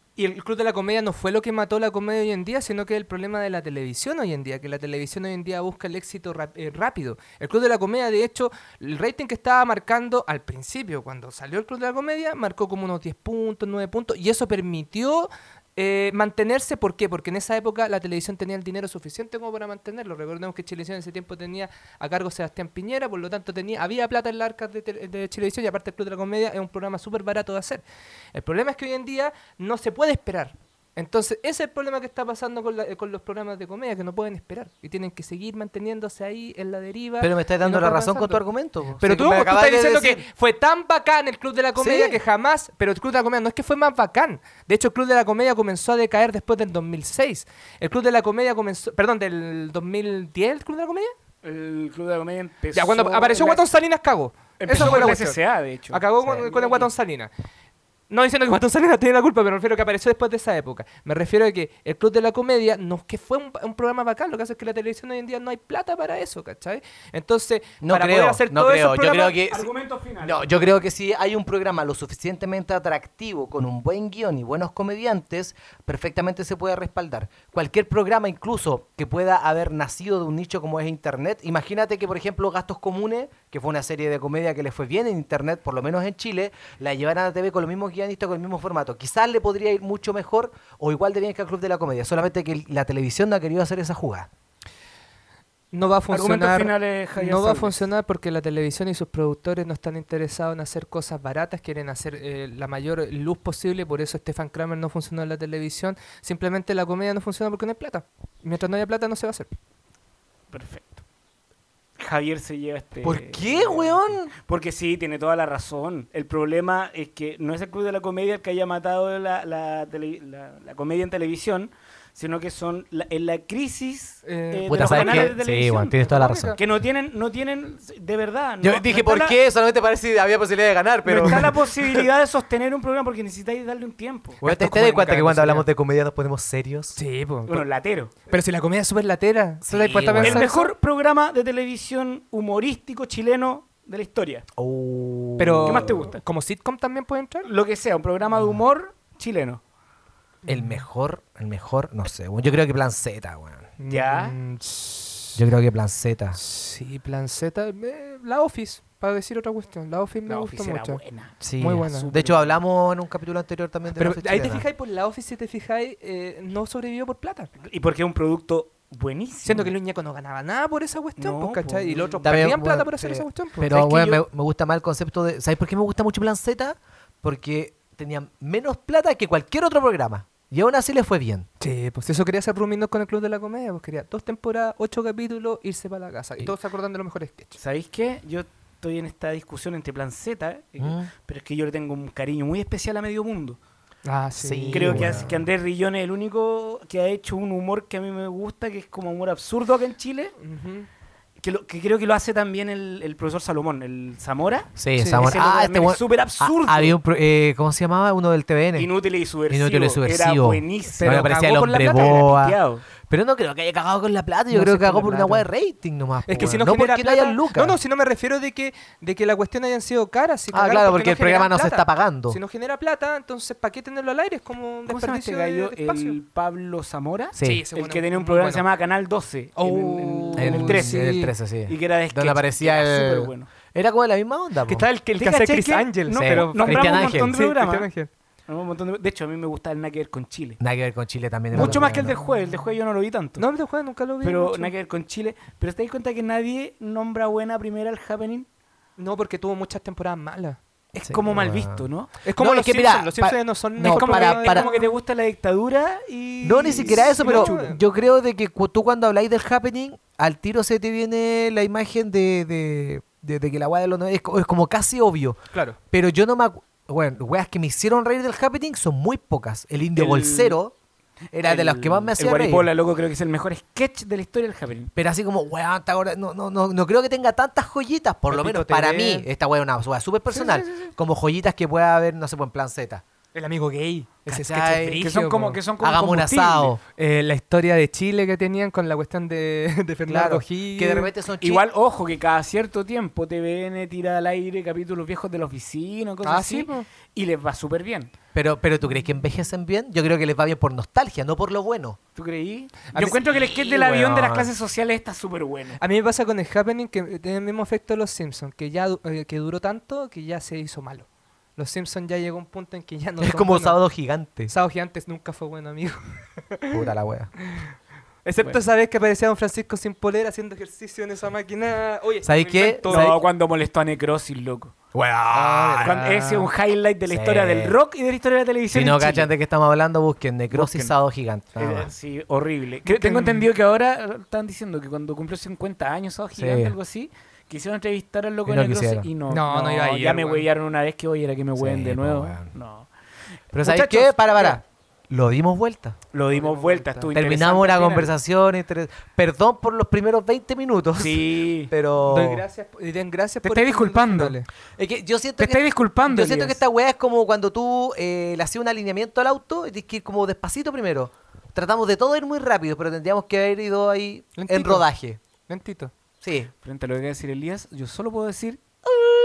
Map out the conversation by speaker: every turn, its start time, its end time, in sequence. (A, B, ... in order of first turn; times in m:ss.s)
0:00.2-0:27.8 A
0:28.3-0:38.4 A
0:37.2-0:40.2 B
0:39.0-0:51.1 A
0:41.8-0:42.2 B
0:51.4-0:53.7 C
0:52.7-0:55.4 A
0:54.6-0:56.9 C
0:55.9-0:57.3 A
0:58.1-1:09.4 A
1:07.8-1:09.7 B
1:09.5-1:10.5 C
1:10.2-1:34.3 B
1:35.7-1:49.5 A
1:36.1-1:37.8 C
1:50.5-1:51.0 C
1:52.0-2:09.4 C
1:53.0-1:54.3 B
2:04.3-2:05.4 A
2:04.7-2:06.6 B
2:06.0-2:06.6 A
2:08.6-2:12.1 B
2:11.1-2:14.4 C
2:14.4-2:17.0 B
2:14.4-2:15.7 A
2:17.0-2:17.6 A
2:17.5-2:18.1 C
2:18.3-2:20.7 A
2:19.6-2:20.5 B
2:20.2-2:24.5 C
2:24.6-2:26.1 B
2:25.4-2:27.5 A
2:25.6-2:26.2 C
2:27.4-2:29.6 C
2:30.4-2:30.8 A
2:30.5-2:33.7 B
2:33.8-2:35.4 A
2:33.9-2:34.4 C
2:35.4-2:36.4 B
2:36.4-2:41.0 A
2:40.3-2:42.6 C
2:41.4-2:44.6 B
2:41.6-2:42.1 A
2:44.0-2:47.5 A
2:47.6-2:49.7 C
2:49.4-2:53.8 A
2:51.2-2:52.4 C
2:52.2-3:01.5 B
2:53.6-2:54.2 C
3:01.6-3:07.6 A
3:07.6-3:13.6 C
3:10.8-3:11.1 B
3:14.0-3:15.2 A
3:14.4-3:15.4 B
3:14.7-3:20.4 C
3:20.4-3:20.9 A
3:21.4-3:27.0 C
3:24.8-3:28.9 B
3:25.0-3:25.3 A
3:28.8-3:32.8 C
3:29.5-3:32.6 B
3:31.0-3:32.3 A
3:33.1-3:37.8 B
3:34.5-3:35.5 A
3:36.3-3:46.2 A
3:40.5-3:42.4 B
3:44.9-3:53.5 C
3:47.4-3:47.6 B
3:47.4-3:48.6 A
3:49.6-3:51.3 A
3:50.4-3:54.8 B
3:54.7-3:58.1 A
3:55.2-3:57.9 C
3:56.1-3:57.4 B
3:58.5-4:00.6 C
4:00.6-4:02.2 B
4:01.5-4:03.4 C
4:01.6-4:02.0 A
4:03.4-4:04.7 A
4:04.2-4:08.5 C
4:09.0-4:10.6 A
4:11.0-4:12.1 C
4:11.0-4:11.8 B
4:12.2-4:14.9 A
4:12.4-4:14.7 B
4:13.9-4:17.6 C
4:16.4-4:25.4 B
4:16.8-4:17.8 A
4:25.9-4:30.7 B
4:30.0-4:30.6 C
4:31.3-4:32.7 B
4:31.4-4:34.9 C
4:35.0-4:43.0 B
4:38.3-4:39.3 A
4:43.3-4:45.6 A
4:44.3-4:45.1 B
4:45.0-4:46.7 C
4:45.8-4:46.8 B
4:47.0-4:51.1 A
4:50.1-4:51.6 B
4:51.4-4:58.1 C
4:56.2-4:56.9 A
4:58.4-5:02.0 B
5:02.2-5:05.8 C
5:03.7-5:04.5 B
5:05.8-5:13.8 A
5:13.2-5:14.5 B
5:14.5-5:16.8 A
5:16.7-5:17.3 B
5:17.5-5:17.7 A
5:18.2-5:23.2 A
5:22.2-5:23.2 B
5:22.9-5:24.8 C
5:24.9-5:26.0 B
5:25.3-5:26.5 A
5:25.8-5:29.3 C
5:27.1-5:27.8 B
5:28.7-5:31.9 B
5:30.5-5:31.0 C
5:31.6-5:42.9 C
5:32.9-5:33.5 A
5:36.4-5:36.8 B
5:38.5-5:39.1 B
5:39.3-5:40.5 A
5:41.6-5:42.5 B
5:43.5-5:46.0 B
5:43.6-5:44.6 C
5:46.1-5:48.1 C
5:46.3-5:47.1 A
5:47.1-5:52.4 B
5:51.0-5:51.7 C
5:52.0-5:54.5 A
5:53.4-5:54.4 C
5:54.8-6:05.2 B
5:55.4-5:56.6 C
6:04.4-6:04.9 A
6:05.5-6:05.9 A
6:06.2-6:06.5 B
6:06.6-6:08.6 C